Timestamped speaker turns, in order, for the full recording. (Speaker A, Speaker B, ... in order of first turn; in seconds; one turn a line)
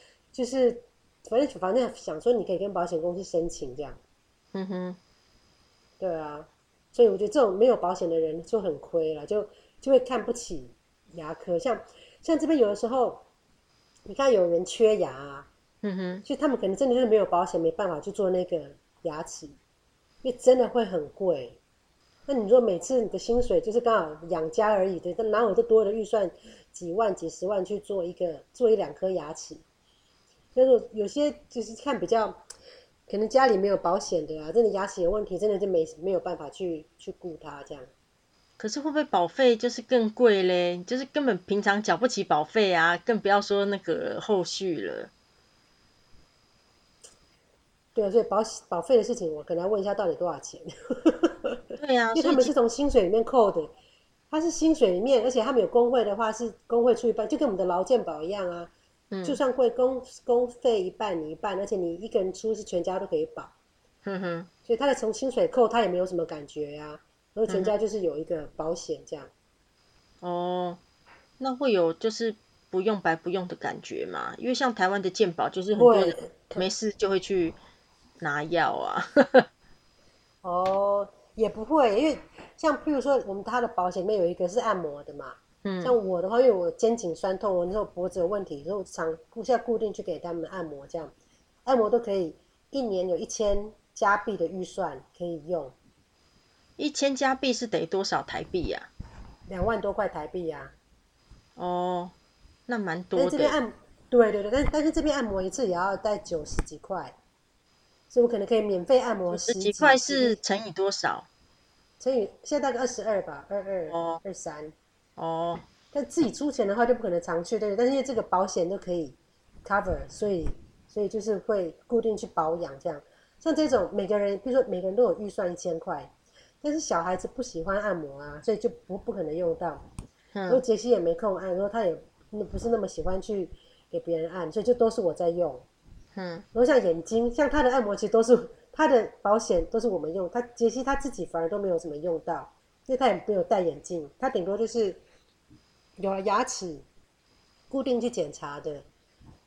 Speaker A: 0.3-4.0
Speaker B: 4.5-5.0
Speaker A: 6.0-13.2
Speaker A: 14.1-15.5
Speaker B: 15.8-16.2
Speaker A: 16.2-19.6
Speaker A: 20.2-21.6
Speaker A: 22.3-29.6
Speaker A: 30.5-32.4
Speaker A: 33.1-37.9
Speaker B: 38.6-45.1
Speaker A: 48.0-51.6
Speaker B: 51.8-52.5
Speaker A: 52.1-53.7
Speaker A: 54.3-58.7
Speaker B: 59.1-59.4
Speaker A: 59.2-63.5
Speaker B: 64.0-64.5
Speaker A: 64.7-69.3
Speaker B: 67.5-67.8
Speaker B: 70.2-70.8
Speaker B: 71.4-77.6
Speaker A: 75.8-76.7
Speaker B: 78.2-79.5
Speaker A: 80.4-91.1
Speaker B: 85.6-86.0
Speaker A: 91.7-95.7
Speaker B: 96.8-98.9
Speaker A: 99.5-100.7
Speaker B: 101.6-102.1
Speaker B: 102.7-103.6
Speaker A: 103.2-107.1
Speaker A: 108.1-110.4
Speaker B: 109.3-111.2
Speaker A: 112.0-114.7
Speaker B: 113.9-114.2
Speaker B: 115.2-115.6
Speaker A: 115.9-129.9
Speaker B: 130.3-130.6
Speaker A: 130.5-135.6
Speaker B: 136.1-136.4
Speaker A: 136.5-145.0
Speaker A: 146.0-146.8
Speaker A: 147.7-148.8